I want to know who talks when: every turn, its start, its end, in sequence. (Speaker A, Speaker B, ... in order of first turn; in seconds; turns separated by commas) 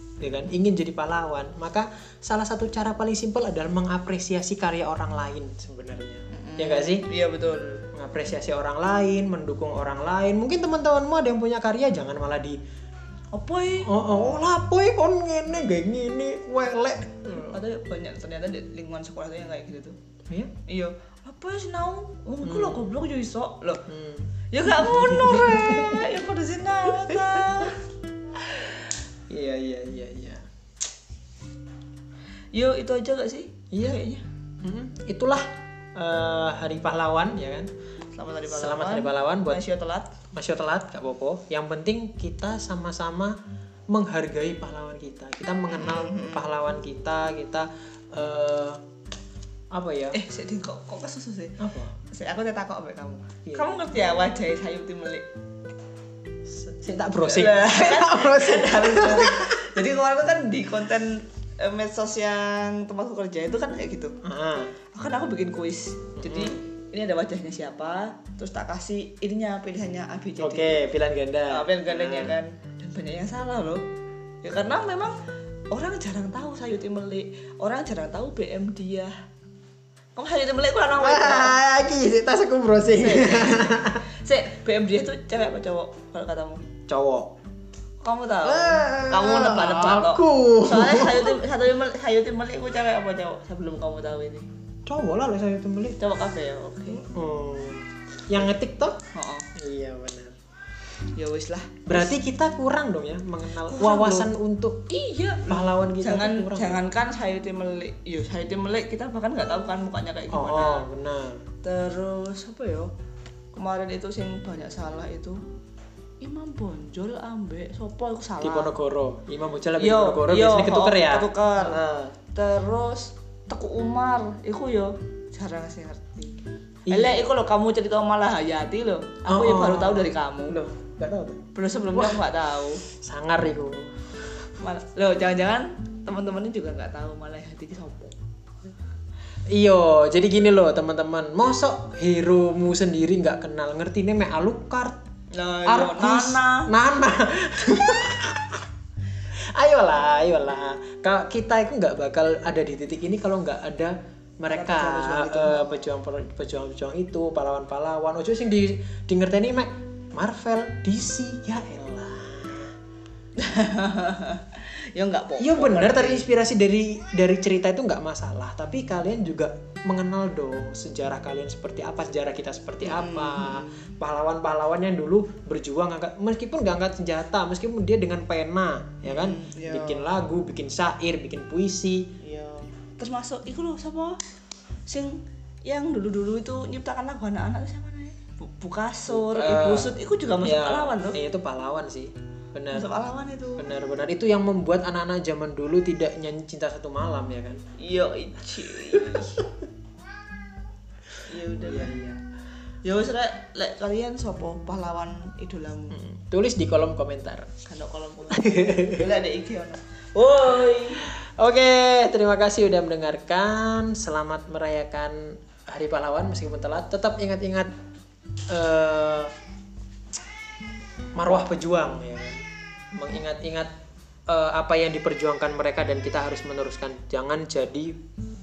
Speaker A: 0.2-7.1, Speaker B: 6.3-7.8, Speaker A: 7.9-12.6, Speaker B: 13.3-14.4, Speaker A: 13.8-17.6, Speaker B: 17.3-19.9, Speaker B: 20.7-23.8, Speaker A: 22.4-22.9, Speaker A: 23.9-26.2, Speaker B: 24.5-27.8, Speaker A: 29.3-30.4, Speaker B: 32.5-34.2, Speaker A: 33.7-34.0, Speaker A: 34.6-37.7, Speaker B: 38.1-40.1, Speaker A: 38.5-39.6, Speaker A: 40.3-43.3, Speaker A: 43.9-48.8, Speaker B: 45.7-46.5, Speaker A: 49.7-50.2, Speaker B: 50.1-51.6, Speaker A: 51.6-51.9, Speaker B: 52.1-55.2, Speaker A: 56.5-59.8, Speaker B: 57.2-64.1, Speaker A: 64.2-64.7, Speaker B: 64.9-70.8, Speaker A: 66.2-66.6, Speaker A: 70.4-72.3, Speaker B: 71.5-73.8, Speaker B: 74.4-75.1, Speaker B: 75.7-79.1, Speaker B: 80.2-81.6, Speaker A: 81.0-84.0, Speaker B: 82.9-86.6, Speaker A: 86.9-87.3, Speaker B: 88.0-94.5, Speaker A: 88.4-91.4, Speaker A: 94.9-96.0, Speaker B: 96.0-97.0, Speaker A: 96.9-99.0, Speaker B: 99.1-99.5, Speaker A: 99.5-100.3, Speaker B: 101.2-102.1, Speaker A: 101.9-104.9, Speaker B: 103.6-104.3, Speaker B: 104.9-110.8, Speaker A: 105.4-106.8, Speaker A: 110.3-111.4, Speaker B: 111.6-112.9, Speaker B: 113.5-115.4, Speaker B: 116.2-118.7, Speaker A: 118.4-122.2, Speaker B: 119.8-121.8, Speaker B: 122.3-126.3, Speaker A: 126.8-127.2, Speaker B: 126.9-130.6, Speaker A: 129.2-131.4, Speaker B: 131.5-132.8, Speaker A: 131.9-132.2, Speaker A: 132.9-133.9, Speaker B: 134.6-138.1, Speaker A: 139.5-145.0, Speaker B: 145.3-146.7, Speaker A: 145.7-148.6, Speaker A: 149.5-162.7, Speaker B: 154.5-155.9, Speaker B: 163.4-166.3, Speaker A: 165.4-182.1, Speaker B: 172.8-173.9, Speaker B: 179.0-180.1, Speaker B: 182.2-184.2, Speaker B: 184.9-191.2, Speaker A: 189.1-192.9, Speaker B: 192.7-193.7, Speaker A: 193.6-197.6, Speaker B: 197.8-199.4, Speaker A: 199.0-199.4, Speaker B: 201.2-201.9, Speaker A: 201.6-202.2, Speaker B: 202.8-206.0, Speaker A: 205.9-207.5, Speaker B: 207.6-211.0, Speaker A: 208.3-209.1, Speaker A: 211.0-217.7, Speaker A: 218.5-219.3, Speaker A: 221.1-222.4, Speaker A: 222.9-223.7, Speaker A: 224.3-227.9